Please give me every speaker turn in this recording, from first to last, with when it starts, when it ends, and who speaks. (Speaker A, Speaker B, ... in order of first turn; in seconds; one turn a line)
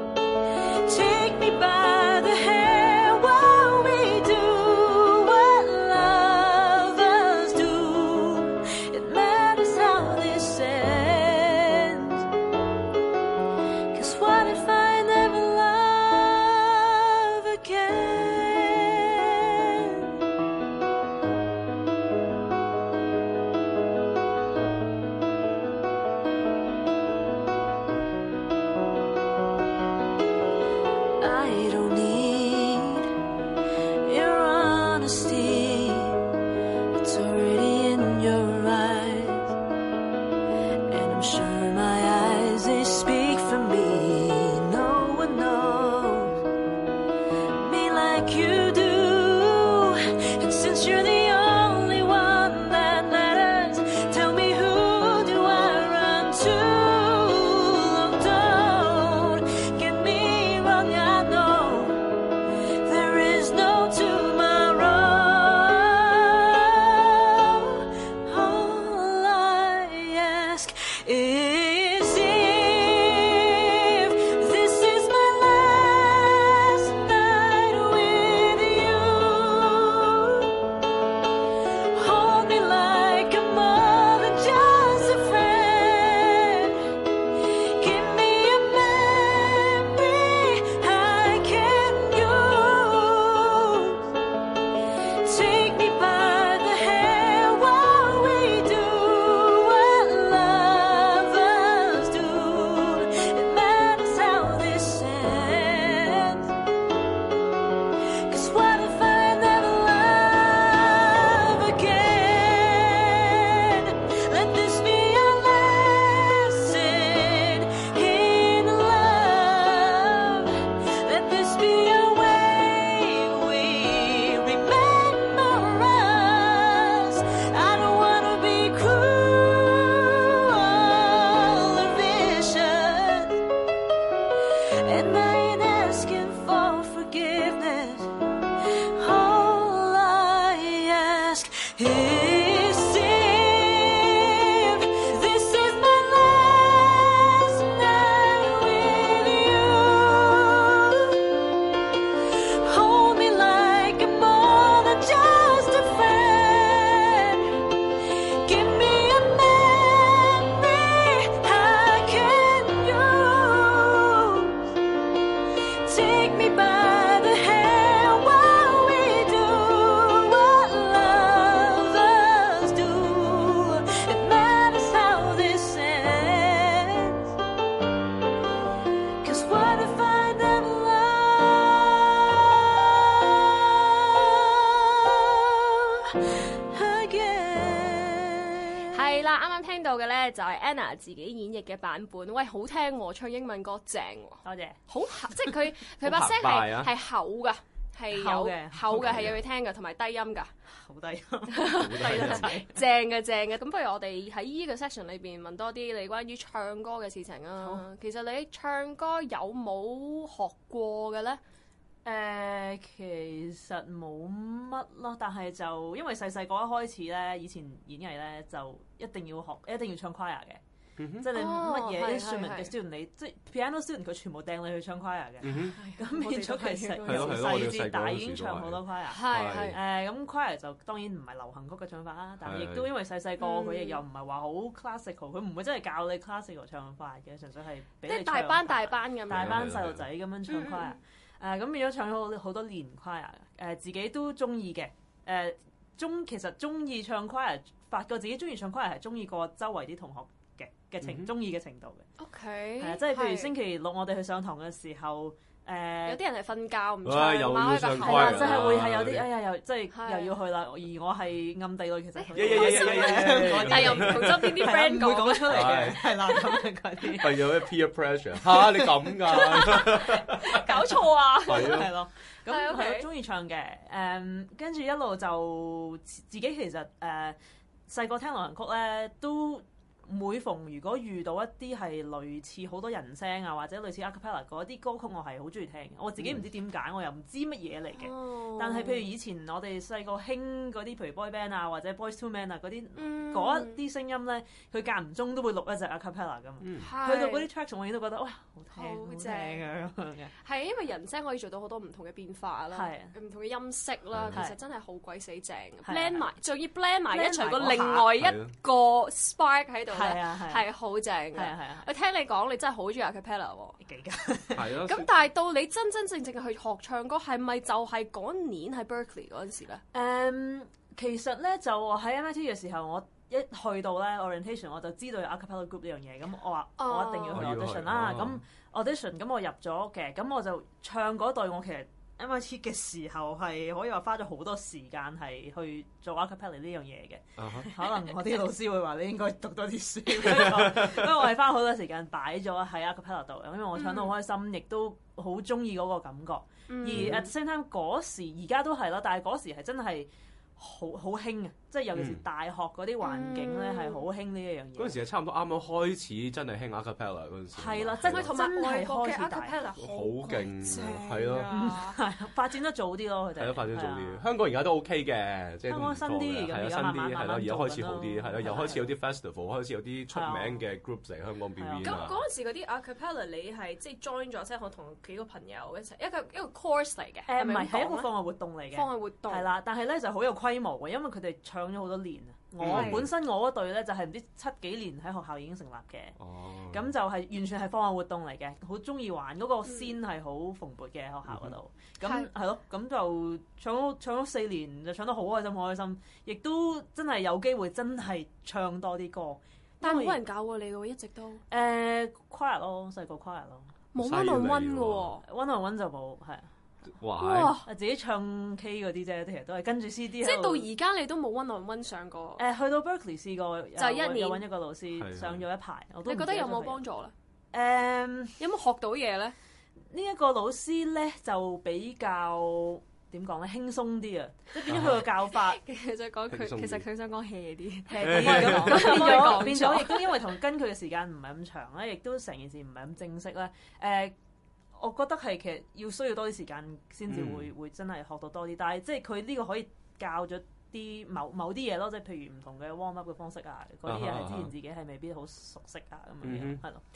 Speaker A: 0.8-12.2
Speaker A: 13.9-20.1
Speaker A: 31.2-33.1
Speaker A: 34.0-36.2
Speaker A: 37.0-39.5
Speaker A: 40.9-46.4
Speaker A: 47.5-62.2
Speaker A: 62.8-80.5
Speaker A: 81.9-86.9
Speaker A: 87.8-94.1
Speaker A: 95.2-106.5
Speaker A: 108.3-133.4
Speaker A: 134.8-151.2
Speaker A: 152.6-157.6
Speaker A: 158.4-164.6
Speaker A: 165.8-177.3
Speaker A: 179.2-189.0
Speaker B: 188.9-200.5
Speaker C: 194.4-194.8
Speaker D: 196.0-196.9
Speaker C: 198.1-199.3
Speaker D: 199.0-199.3
Speaker C: 200.7-202.8
Speaker B: 201.5-211.4
Speaker D: 201.8-202.5
Speaker C: 207.6-207.8
Speaker C: 212.1-220.6
Speaker D: 221.0-221.3
Speaker C: 221.2-252.1
Speaker B: 221.3-222.7
Speaker D: 225.4-225.8
Speaker B: 225.8-227.5
Speaker D: 227.1-229.8
Speaker B: 229.1-229.8
Speaker D: 232.4-232.9
Speaker B: 233.4-234.0
Speaker B: 238.0-239.7
Speaker D: 239.3-240.1
Speaker B: 240.5-241.0
Speaker D: 251.0-251.3
Speaker B: 252.2-253.5
Speaker C: 252.8-256.2
Speaker B: 256.1-258.7
Speaker D: 257.1-259.3
Speaker C: 258.0-267.6
Speaker B: 259.9-260.4
Speaker B: 262.2-266.6
Speaker D: 262.4-264.8
Speaker D: 265.5-266.0
Speaker D: 267.2-270.8
Speaker B: 269.1-271.9
Speaker D: 271.5-271.9
Speaker C: 271.5-300.3
Speaker B: 272.5-273.1
Speaker B: 288.0-289.1
Speaker B: 293.0-293.8
Speaker D: 296.6-296.9
Speaker B: 296.8-297.5
Speaker B: 298.7-299.7
Speaker B: 300.4-313.8
Speaker C: 302.7-303.1
Speaker D: 304.1-304.4
Speaker C: 305.8-306.2
Speaker C: 307.1-308.1
Speaker D: 308.2-308.5
Speaker C: 309.9-310.6
Speaker C: 311.4-311.9
Speaker C: 313.8-314.7
Speaker D: 314.6-315.1
Speaker B: 314.8-319.8
Speaker C: 319.9-355.0
Speaker B: 326.8-327.4
Speaker D: 327.3-328.4
Speaker D: 337.4-337.7
Speaker D: 340.6-341.0
Speaker B: 343.8-344.1
Speaker B: 346.7-347.3
Speaker D: 346.9-347.2
Speaker D: 351.9-352.2
Speaker B: 353.0-354.1
Speaker D: 354.8-358.4
Speaker C: 357.5-359.6
Speaker B: 358.1-362.0
Speaker D: 359.8-361.5
Speaker C: 361.5-364.2
Speaker D: 363.4-372.2
Speaker C: 365.7-368.9
Speaker C: 370.1-370.6
Speaker C: 371.6-372.0
Speaker B: 371.8-378.1
Speaker C: 377.3-386.2
Speaker B: 378.7-379.5
Speaker D: 382.6-383.1
Speaker B: 382.7-383.1
Speaker D: 386.2-386.9
Speaker C: 386.7-400.2
Speaker B: 392.0-392.3
Speaker B: 399.8-401.4
Speaker C: 401.5-403.7
Speaker B: 403.9-405.2
Speaker D: 404.0-405.1
Speaker C: 405.2-406.5
Speaker D: 407.0-407.6
Speaker B: 407.2-407.7
Speaker C: 407.7-410.7
Speaker B: 410.2-412.4
Speaker C: 412.4-416.8
Speaker B: 413.8-414.5
Speaker D: 415.0-415.4
Speaker B: 416.1-417.1
Speaker C: 417.5-418.4
Speaker B: 418.4-419.4
Speaker C: 419.9-425.6
Speaker D: 424.7-425.1
Speaker B: 425.3-430.2
Speaker D: 426.3-426.9
Speaker C: 427.9-434.1
Speaker D: 428.0-429.4
Speaker C: 434.7-446.8
Speaker D: 437.1-437.5
Speaker D: 443.9-444.5
Speaker D: 446.2-446.6